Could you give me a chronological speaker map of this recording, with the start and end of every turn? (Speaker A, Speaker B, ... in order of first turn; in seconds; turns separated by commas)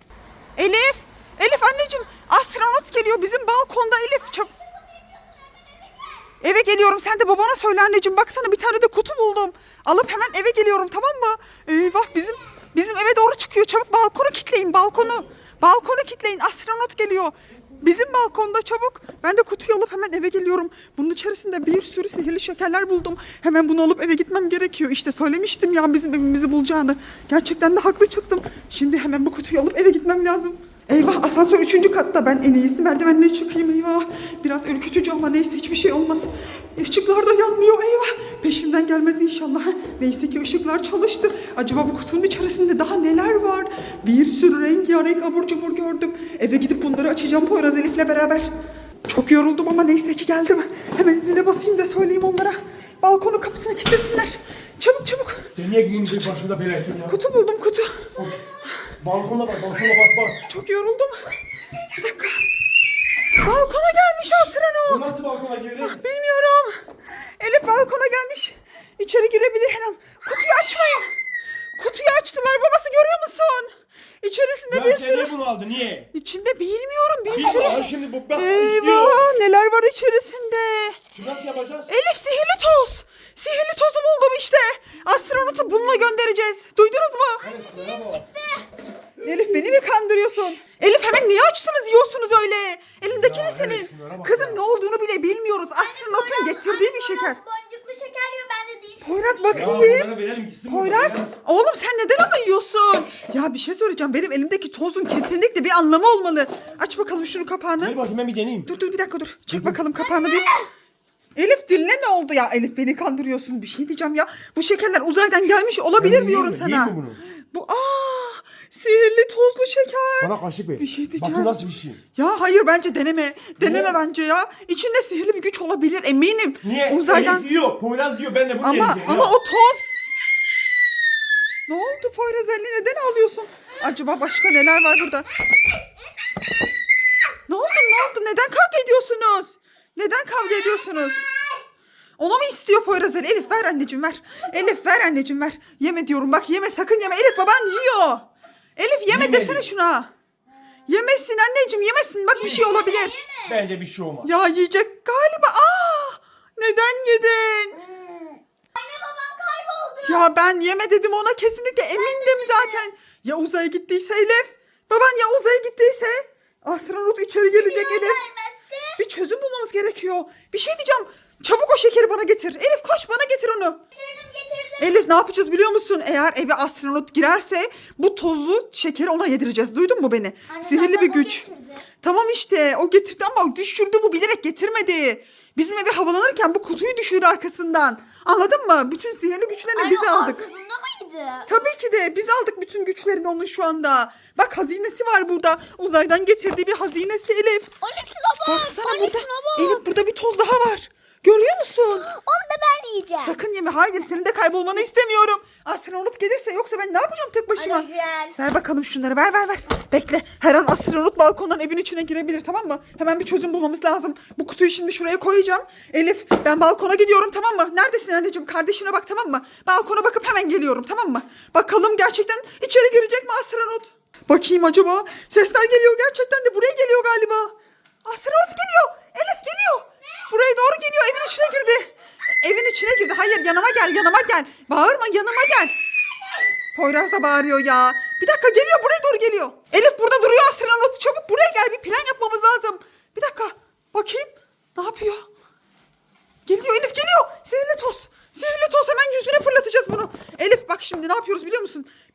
Speaker A: 0.6-4.5, Speaker B: 4.2-6.3, Speaker A: 6.4-48.5, Speaker A: 49.1-56.4, Speaker C: 55.5-57.2, Speaker A: 57.0-58.1, Speaker C: 58.1-58.4, Speaker C: 59.0-60.4, Speaker A: 60.5-61.2, Speaker A: 62.0-62.5, Speaker A: 63.4-65.1, Speaker C: 64.3-66.0, Speaker A: 65.8-66.8, Speaker A: 67.4-71.1, Speaker A: 71.8-75.3, Speaker C: 74.7-76.1, Speaker A: 76.1-81.0, Speaker C: 77.3-79.2, Speaker C: 81.1-81.9, Speaker A: 81.9-87.4, Speaker C: 87.4-88.2, Speaker B: 87.7-88.7, Speaker C: 89.2-89.8, Speaker A: 89.2-97.4, Speaker C: 93.0-94.6, Speaker B: 95.8-99.8, Speaker A: 99.0-100.1, Speaker C: 99.5-101.3, Speaker A: 100.7-108.0, Speaker C: 107.8-108.7, Speaker A: 108.7-110.5, Speaker C: 109.5-109.8, Speaker B: 110.2-110.5, Speaker A: 111.3-121.5, Speaker C: 116.0-117.2, Speaker C: 120.2-122.0, Speaker A: 122.2-127.5, Speaker C: 123.6-124.0, Speaker C: 126.6-129.3, Speaker A: 128.6-129.9, Speaker A: 131.7-135.2, Speaker A: 137.5-141.2, Speaker A: 142.2-148.2, Speaker A: 148.8-150.1, Speaker C: 149.1-149.7, Speaker A: 150.9-153.2, Speaker B: 152.3-153.6, Speaker C: 153.4-154.3, Speaker A: 154.2-157.8, Speaker B: 157.8-160.3, Speaker A: 160.0-168.2, Speaker B: 161.9-162.8, Speaker B: 167.5-169.0, Speaker A: 169.0-173.8, Speaker B: 173.9-175.0, Speaker A: 174.8-181.5, Speaker B: 180.5-181.8, Speaker A: 182.0-190.4, Speaker B: 189.7-191.6, Speaker A: 191.5-197.8, Speaker B: 197.8-199.8, Speaker A: 198.4-202.1, Speaker B: 201.9-203.4, Speaker A: 203.2-235.7, Speaker B: 207.6-208.3, Speaker A: 236.7-245.2, Speaker A: 246.4-251.9